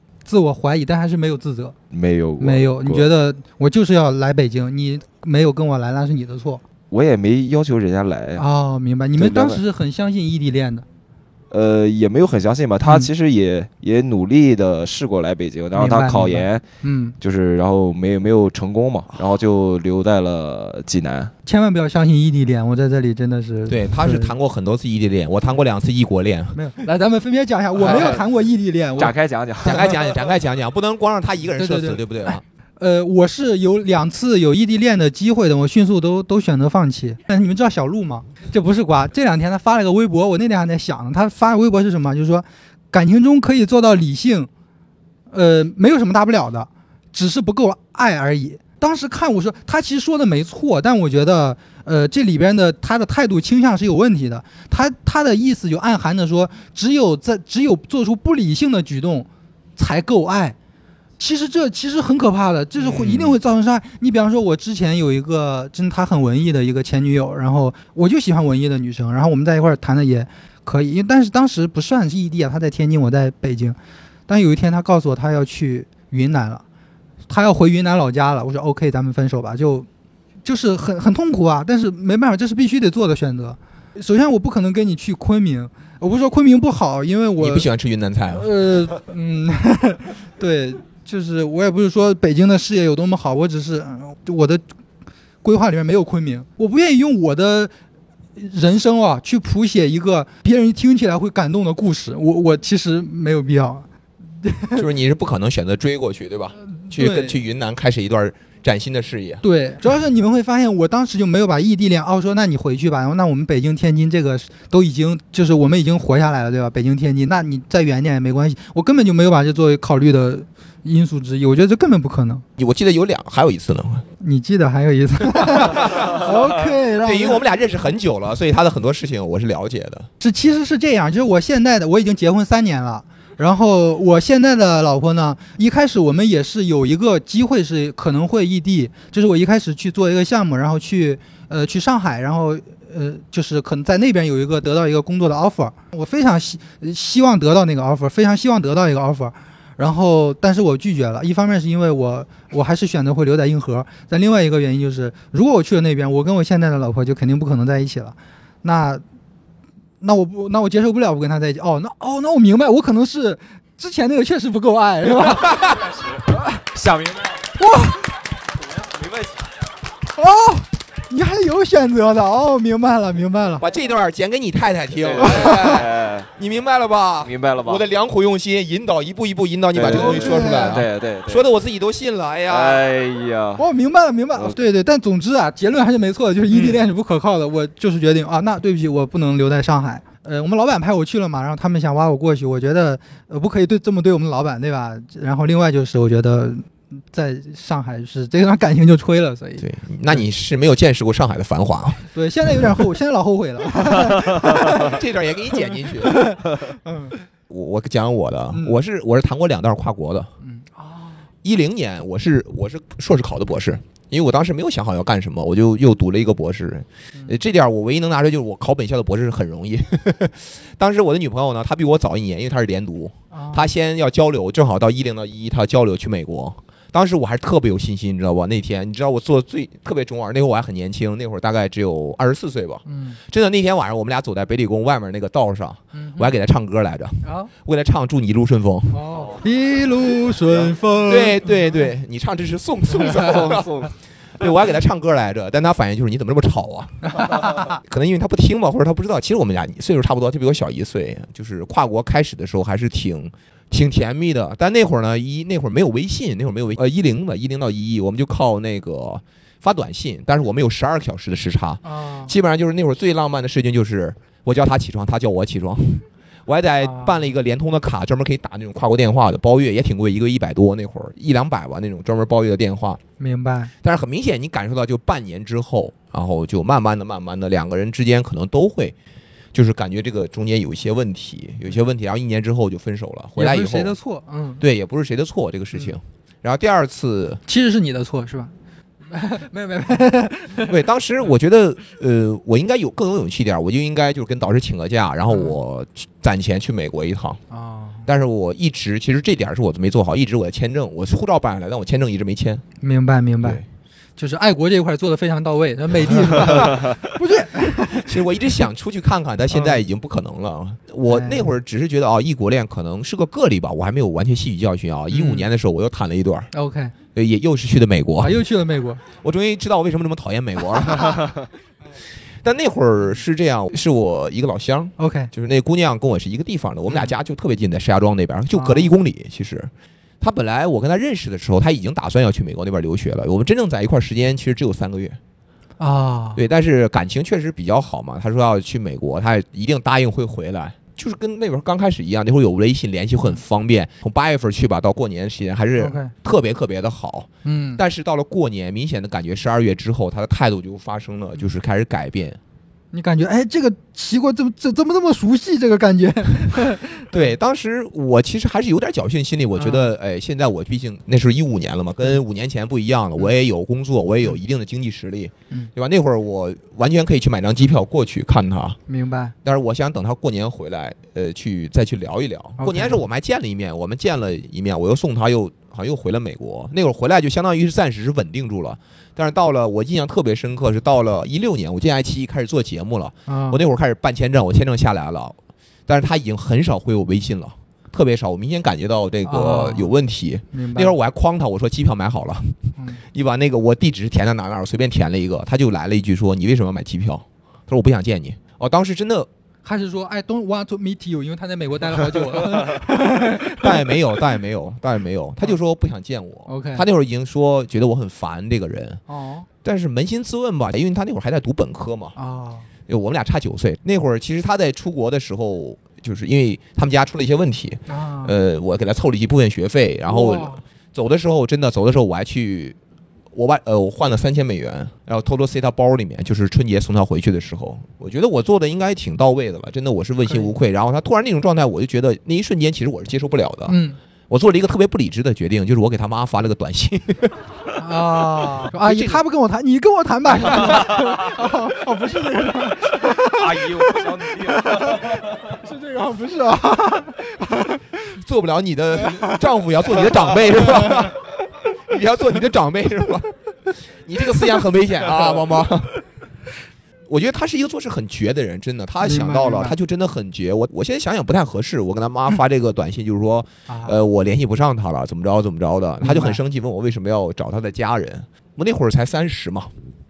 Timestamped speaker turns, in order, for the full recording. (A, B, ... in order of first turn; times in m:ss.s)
0:00.3-0:01.8 A
0:01.9-0:03.1 B
0:02.4-0:06.6 A
0:06.9-0:08.4 B
0:08.4-0:10.8 A
0:09.2-0:09.6 B
0:11.5-0:16.6 B
0:12.8-0:13.1 A
0:15.8-0:17.2 A
0:17.2-0:21.3 B
0:21.5-0:24.3 A
0:23.7-0:26.6 C
0:26.6-0:29.1 A
0:27.8-0:28.2 B
0:27.8-0:28.1 C
0:29.0-0:30.0 B
0:29.6-0:32.4 C
0:29.6-0:29.9 A
0:31.6-0:44.5 A
0:45.3-1:00.6 A
1:01.2-1:13.8 A
1:02.8-1:03.4 C
1:14.3-1:16.6 A
1:17.3-1:19.9 A
1:20.4-1:27.7 A
1:27.4-1:28.5 C
1:28.3-1:34.6 A
1:35.4-1:37.7 A
1:38.4-1:43.8 A
1:44.4-1:44.8 A
1:44.8-1:49.4 C
1:46.9-1:47.4 A
1:49.4-2:02.4 A
2:02.6-2:04.0 C
2:04.2-2:07.4 A
2:05.4-2:06.2 C
2:07.0-2:10.1 C
2:10.2-2:39.0 A
2:40.0-2:45.8 A
2:45.8-2:47.4 B
2:47.6-2:48.1 A
2:48.7-2:49.5 B
2:50.1-2:53.6 A
2:53.6-3:02.8 C
2:55.0-2:56.3 B
2:55.2-2:55.7 A
2:57.2-2:57.8 B
2:59.7-3:01.4 B
2:59.9-3:00.8 A
3:02.5-3:03.6 B
3:03.6-3:20.2 A
3:06.5-3:06.8 C
3:19.6-3:22.1 C
3:22.1-3:25.0 A
3:24.5-3:26.4 C
3:26.0-3:27.2 A
3:27.5-3:30.3 C
3:28.5-3:28.8 A
3:30.4-3:31.2 A
3:31.4-3:59.0 C
3:43.3-3:43.7 A
3:52.9-3:53.2 A
3:56.0-3:56.3 A
3:57.2-3:57.5 A
3:58.9-4:01.5 A
3:59.1-3:59.4 B
4:00.5-4:33.0 C
4:03.2-4:03.9 B
4:07.2-4:07.7 A
4:21.8-4:22.3 A
4:26.8-4:27.2 A
4:33.2-4:33.7 A
4:33.8-4:39.0 C
4:39.5-4:44.0 C
4:43.4-4:44.6 A
4:44.6-4:47.4 C
4:47.5-4:48.5 A
4:49.1-4:50.7 A
4:50.6-4:57.4 C
4:57.5-4:58.1 A
4:58.1-5:02.6 C
5:02.8-5:03.6 A
5:04.2-5:08.1 A
5:06.4-5:06.9 C
5:07.8-5:16.5 C
5:09.5-5:09.8 A
5:11.1-5:11.5 A
5:15.1-5:15.5 A
5:16.5-5:17.0 A
5:17.2-5:18.4 C
5:18.2-5:19.0 A
5:19.2-5:21.4 C
5:22.4-5:35.2 C
5:25.0-5:25.3 A
5:28.5-5:28.9 A
5:35.8-5:36.4 A
5:36.4-5:52.4 C
5:45.8-5:46.1 A
5:47.4-5:47.8 A
5:52.9-5:57.1 A
5:57.1-6:08.8 C
5:59.6-5:59.9 A
6:08.9-6:09.3 A
6:09.4-6:25.4 C
6:12.6-6:13.0 A
6:23.3-6:23.6 A
6:25.9-6:32.6 C
6:29.2-6:29.9 A
6:30.5-6:31.0 A
6:33.1-6:39.3 C
6:39.6-6:43.9 A
6:43.6-6:49.0 C
6:46.5-6:46.8 A
6:49.1-6:49.5 A
6:49.6-6:52.2 C
6:52.2-6:52.7 A
6:52.9-7:02.8 C
6:57.9-6:58.3 A
7:00.1-7:00.6 A
7:03.3-7:13.8 C
7:10.3-7:10.5 A
7:13.7-7:14.0 A
7:14.3-7:17.4 C
7:17.8-7:27.9 A
7:18.7-7:19.2 C
7:20.6-7:20.8 C
7:23.2-7:25.2 B
7:28.2-7:31.2 C
7:29.0-7:29.4 A
7:30.0-7:31.1 A
7:31.9-7:36.0 C
7:37.1-7:49.7 C
7:39.0-7:39.8 A
7:43.7-7:43.9 A
7:46.0-7:46.4 A